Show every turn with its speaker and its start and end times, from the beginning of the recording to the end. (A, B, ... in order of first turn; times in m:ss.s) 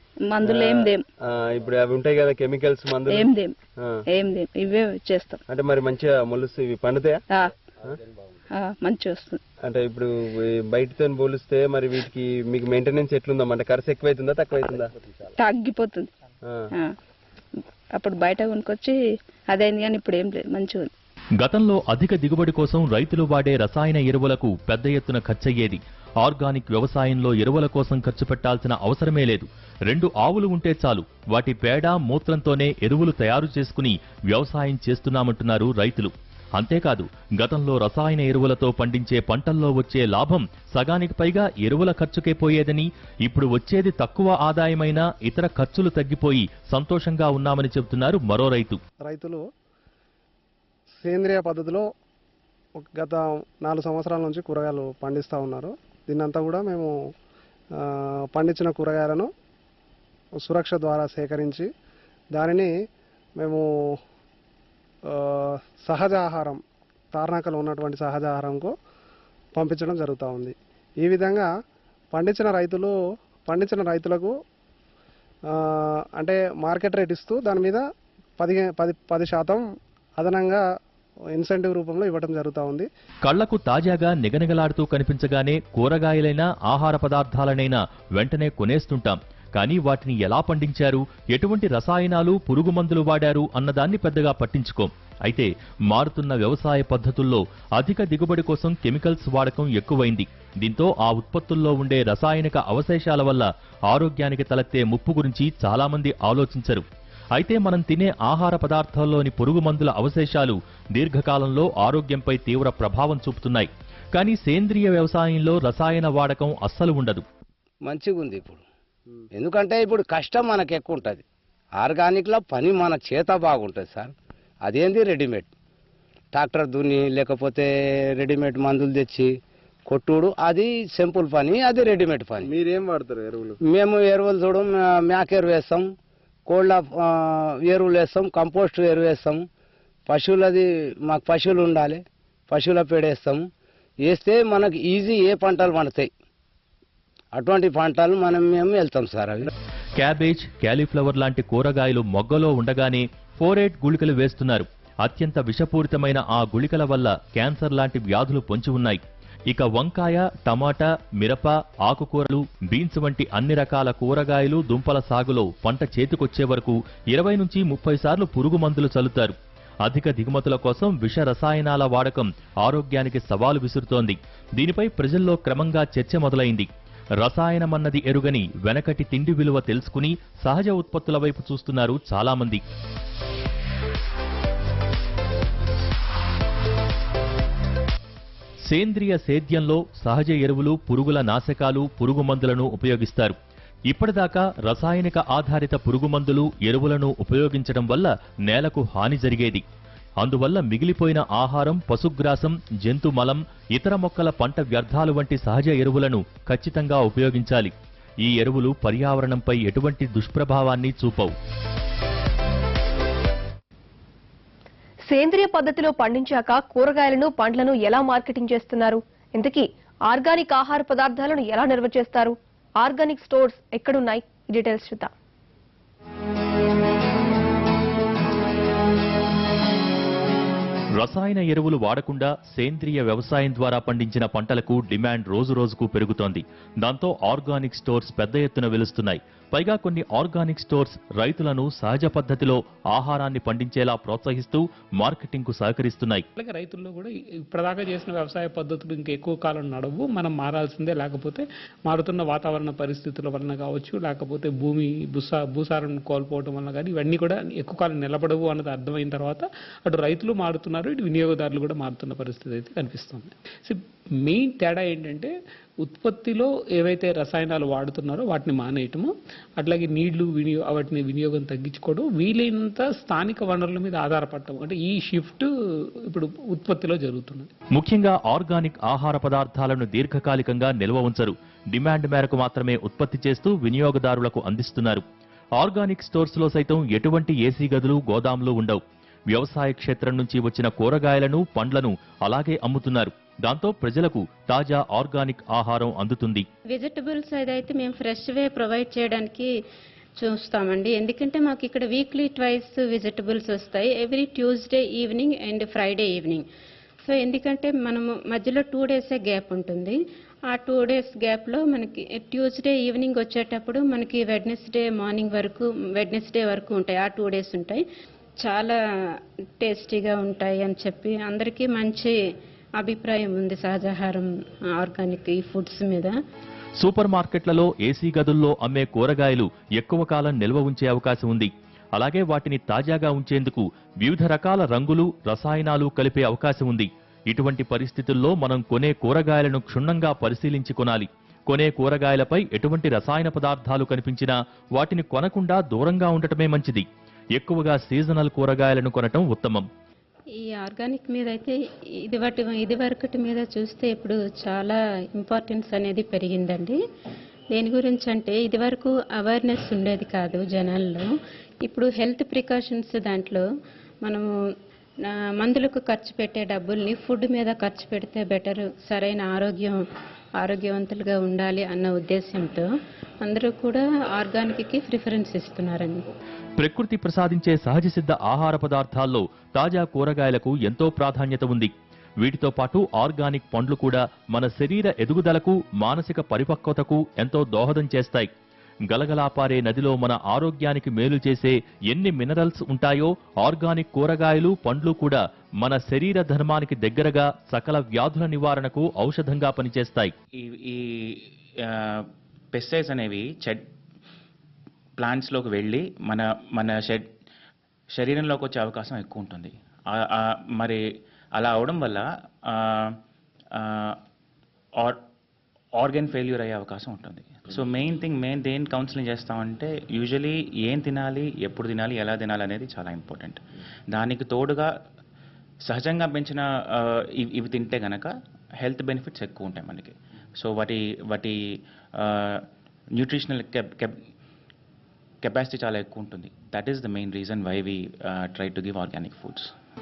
0:00.3-0:01.0 A
0:00.4-0:03.3 B
0:03.1-0:03.6 A
0:04.1-0:05.4 A
0:05.5-0:07.2 B
0:08.5-0:09.4 A
0:09.6-0:14.9 B
0:15.4-0:16.1 A
0:17.9-0:18.9 A
0:19.5-0:20.9 A
0:21.4-0:48.8 C
0:49.1-0:49.4 D
0:51.0-0:51.9 D
0:52.8-0:56.9 D
0:57.8-0:59.3 D
1:00.4-1:01.7 D
1:02.3-1:02.7 D
1:05.1-1:06.6 D
1:07.1-1:08.7 D
1:09.6-1:11.5 D
1:12.1-1:12.9 D
1:13.5-1:14.3 D
1:15.5-1:17.8 D
1:18.4-1:19.6 D
1:20.2-1:20.6 D
1:21.3-1:22.9 D
1:23.2-1:46.8 C
1:47.4-1:57.2 C
1:57.9-1:58.6 E
1:59.4-2:01.2 E
2:01.8-2:04.1 E
2:04.6-2:05.5 E
2:06.3-2:09.4 E
2:09.9-2:12.5 E
2:12.5-2:13.5 B
2:13.6-2:15.9 E
2:16.5-2:19.4 E
2:20.1-2:23.4 E
2:24.0-2:26.1 E
2:27.4-2:29.5 E
2:30.0-2:56.7 C
2:57.2-3:02.6 C
3:08.7-3:13.4 C
3:13.9-3:19.6 C
3:20.2-3:31.3 C
3:35.1-3:45.1 F
3:51.0-4:06.2 C
4:06.4-4:25.3 G
4:25.8-4:35.5 G
4:36.1-4:37.5 G
4:37.7-4:45.0 C
4:45.6-4:56.5 C
4:56.7-4:59.5 H
5:00.2-5:06.4 H
5:07.0-5:10.0 H
5:10.5-5:17.8 H
5:18.4-5:18.8 H
5:19.6-5:22.1 H
5:22.8-5:26.2 H
5:26.8-5:46.8 C
5:47.4-5:49.7 C
5:50.4-5:56.8 H
5:57.5-6:01.1 H
6:01.6-6:03.4 H
6:05.0-6:09.8 H
6:10.4-6:12.7 H
6:13.2-6:16.0 H
6:16.6-6:28.3 C
6:28.9-6:40.1 C
6:40.4-6:43.6 I
6:45.0-6:47.1 I
6:47.9-6:50.8 I
6:51.4-6:53.0 I
6:53.5-6:54.0 I
6:55.8-7:04.7 I
7:05.6-7:14.0 I
7:15.2-7:19.5 I